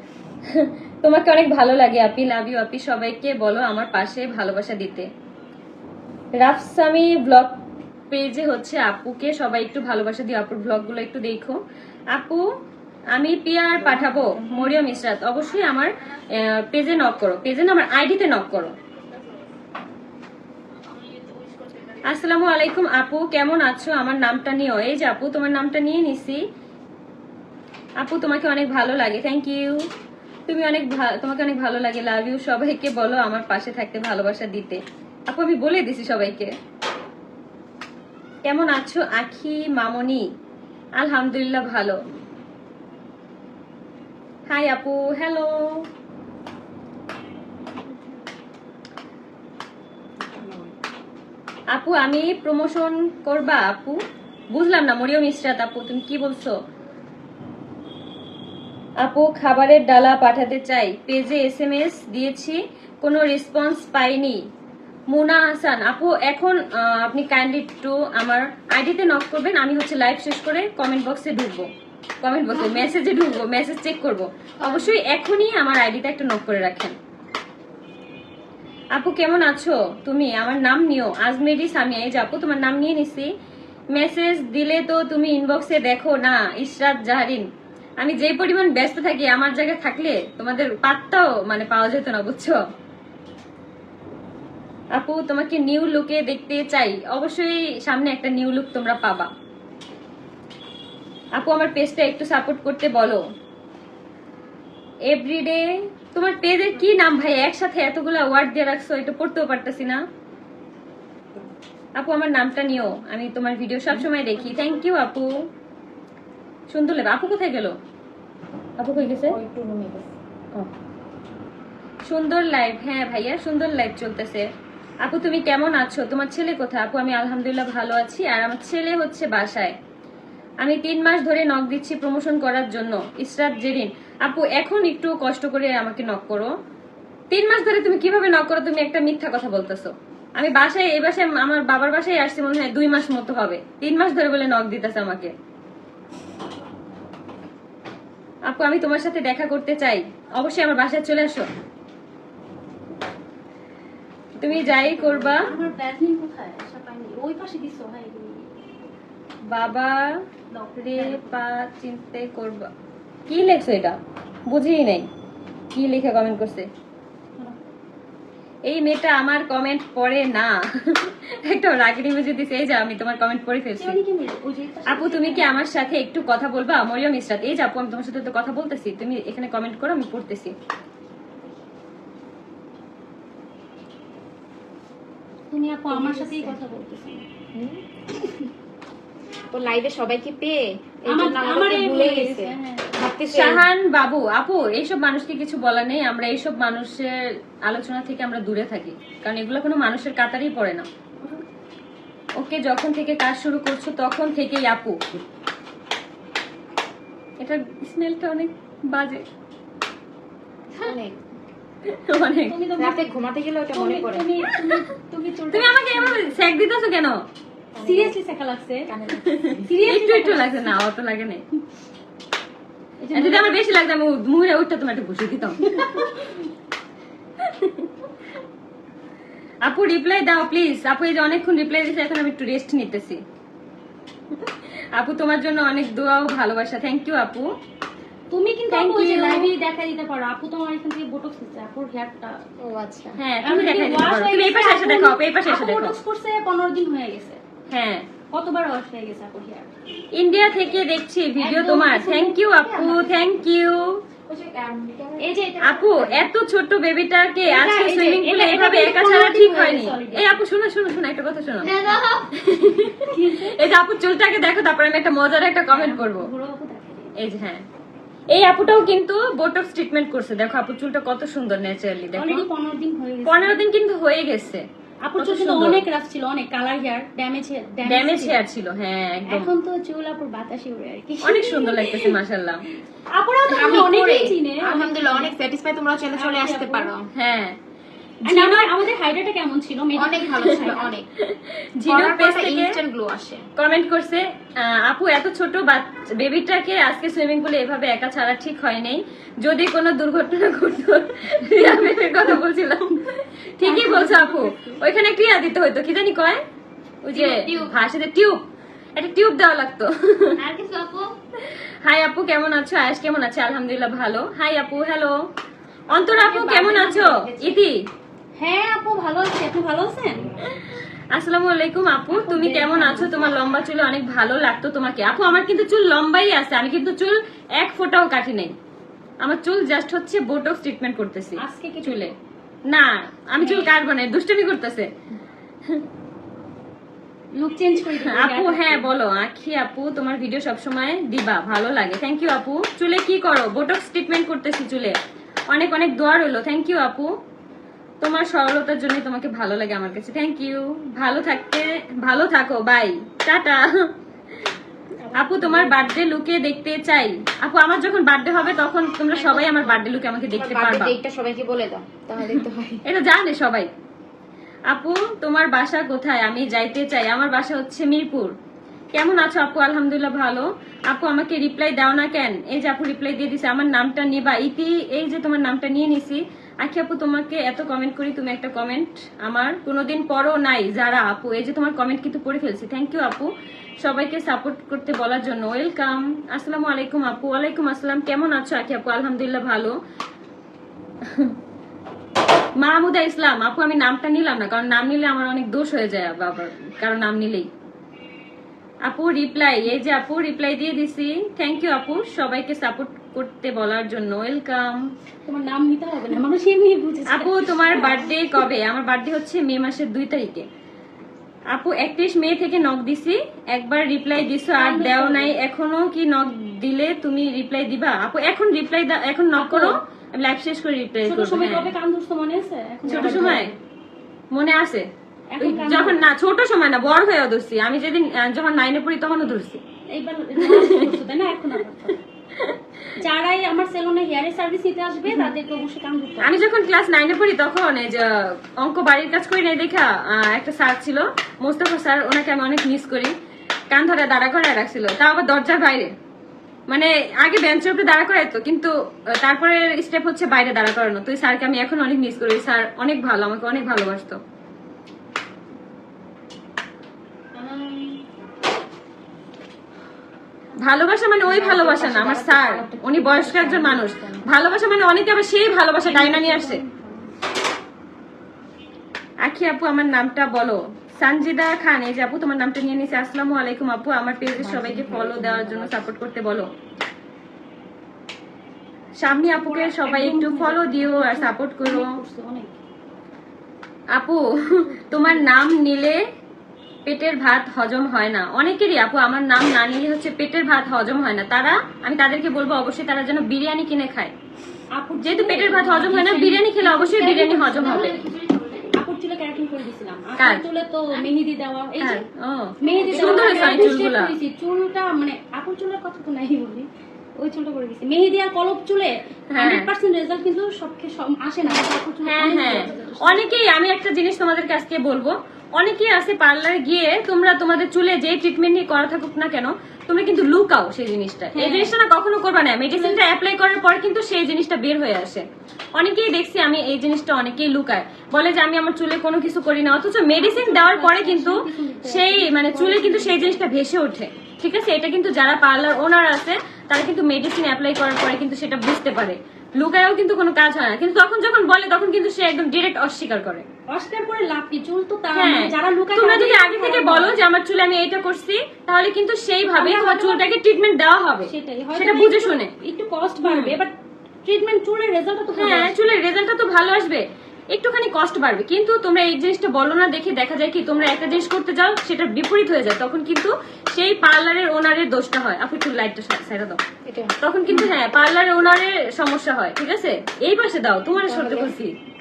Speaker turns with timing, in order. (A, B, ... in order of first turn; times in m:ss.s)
0:00.6-0:05.1 A
0:06.4-0:07.6 A
0:08.1-0:11.6 A
0:12.1-0:12.4 A
0:13.1-0:18.7 A
0:21.1-0:22.0 B
0:22.0-0:26.4 A
0:28.0-0:29.8 A
0:30.5-0:36.5 A
0:38.4-0:40.2 A
0:41.0-0:42.0 A
0:44.5-0:45.6 A
0:51.7-0:54.0 A
0:54.5-0:56.5 A
0:59.0-1:04.4 A
1:05.1-1:11.7 A
1:12.2-1:17.0 A
1:14.6-1:15.0 B
1:19.0-1:23.3 A
1:24.0-1:27.5 A
1:28.0-1:32.6 A
1:35.0-1:39.3 A
1:41.4-1:43.2 A
1:45.1-1:50.0 A
1:52.0-1:55.3 A
1:56.7-1:57.8 A
1:58.8-1:59.4 A
1:59.0-2:00.1 B
2:02.1-2:04.5 A
2:05.0-2:09.8 A
2:10.6-2:16.5 A
2:17.3-2:25.3 A
2:28.5-2:31.5 A
2:34.4-2:35.5 A
2:34.5-2:38.6 C
2:39.5-2:40.2 A
2:40.5-2:41.4 C
2:40.8-2:42.7 A
2:43.3-2:44.0 A
2:44.5-2:45.1 A
2:45.7-2:46.7 A
2:48.7-2:54.0 A
2:53.8-2:55.6 C
2:54.9-3:00.5 A
3:05.5-3:07.3 C
3:05.9-3:06.6 B
3:07.6-3:07.8 B
3:09.5-3:13.7 B
3:11.1-3:12.9 C
3:13.3-3:17.2 A
3:17.7-3:20.9 A
3:22.4-3:25.0 A
3:27.4-3:29.2 A
3:30.8-3:31.2 B
3:31.8-3:32.6 A
3:32.5-3:33.2 C
3:32.8-3:34.3 B
3:33.7-3:36.4 C
3:35.5-3:37.2 A
3:37.7-3:38.2 B
3:37.8-3:40.8 C
3:38.9-3:39.5 B
3:39.2-3:41.4 A
3:43.0-3:43.6 C
3:43.1-3:46.1 A
3:45.7-3:46.2 C
3:49.6-3:53.2 A
3:54.4-3:57.5 A
3:58.3-4:02.4 C
3:58.7-3:59.5 A
4:02.6-4:03.2 B
4:03.2-4:06.0 A
4:03.4-4:07.4 C
4:07.7-4:08.1 A
4:08.3-4:09.7 C
4:10.1-4:14.0 A
4:11.4-4:13.2 C
4:14.3-4:16.3 B
4:15.2-4:16.1 C
4:15.6-4:26.3 A
4:17.4-4:20.4 C
4:21.6-4:22.3 B
4:23.0-4:23.6 C
4:25.7-4:27.1 C
4:27.2-4:27.6 A
4:28.3-4:32.5 A
4:32.1-4:33.6 C
4:33.2-4:34.6 A
4:35.0-4:38.4 C
4:35.2-4:35.8 A
4:37.9-4:39.5 A
4:39.3-4:42.2 C
4:41.2-4:42.7 A
4:43.1-4:45.4 C
4:43.5-4:47.1 B
4:46.2-4:46.9 C
4:47.2-4:47.6 A
4:48.3-4:50.9 C
4:48.3-4:48.6 A
4:49.9-4:51.1 B
4:51.2-4:52.8 A
4:51.9-4:53.5 B
4:53.6-5:03.1 A
5:03.6-5:06.4 A
5:03.6-5:04.8 C
5:07.0-5:08.4 A
5:07.1-5:07.8 B
5:09.0-5:10.4 A
5:10.4-5:11.1 B
5:11.8-5:15.1 A
5:15.9-5:17.8 A
5:16.1-5:17.6 B
5:18.4-5:20.4 C
5:20.5-5:28.6 A
5:22.1-5:23.4 C
5:29.2-5:32.2 A
5:31.4-5:32.1 C
5:32.7-5:34.9 A
5:33.4-5:33.7 C
5:37.4-5:38.9 C
5:37.9-5:45.0 A
5:45.5-5:47.1 A
5:48.0-5:53.9 A
5:55.1-5:55.9 B
5:55.1-6:01.0 A
5:59.1-5:59.8 B
6:00.4-6:02.8 B
6:02.9-6:03.7 A
6:04.7-6:08.4 A
6:08.9-6:23.3 A
6:23.8-6:29.8 A
6:32.6-6:37.5 A
6:38.9-6:44.8 A
6:45.3-6:48.4 C
6:47.1-6:50.5 A
6:51.5-7:01.7 A
6:54.5-6:55.4 C
6:59.4-6:59.8 C
7:01.1-7:03.6 C
7:02.9-7:03.5 A
7:04.3-7:04.9 A
7:05.3-7:06.1 C
7:05.4-7:09.6 A
7:09.9-7:12.0 C
7:10.4-7:11.0 A
7:13.0-7:16.3 C
7:16.2-7:23.1 A
7:23.7-7:25.9 A
7:26.7-7:34.2 A
7:37.4-7:38.0 B
7:40.6-7:46.6 A
7:41.3-7:44.3 B
7:45.8-7:47.2 C
7:49.2-7:56.5 A
7:54.4-7:55.9 B
7:59.0-8:01.9 A
7:59.2-8:02.6 C
8:04.0-8:06.0 A
8:04.4-8:05.3 C
8:06.9-8:14.1 A
8:14.7-8:22.1 C
8:15.0-8:18.0 A
8:17.1-8:18.7 B
8:20.2-8:20.4 A
8:21.8-8:24.1 A
8:22.6-8:33.2 C
8:22.6-8:23.8 B
8:29.3-8:29.7 A
8:32.1-8:45.2 A
8:41.3-8:41.8 C
8:42.8-8:43.0 C
8:45.8-9:03.5 A
8:50.2-8:53.5 C
9:03.7-9:07.2 C
9:05.1-9:12.5 A
9:09.5-9:10.4 C
9:11.2-9:15.8 C
9:13.2-9:13.6 A
9:15.4-9:26.6 A
9:26.8-9:27.7 B
9:27.2-9:31.8 A
9:31.0-9:31.6 B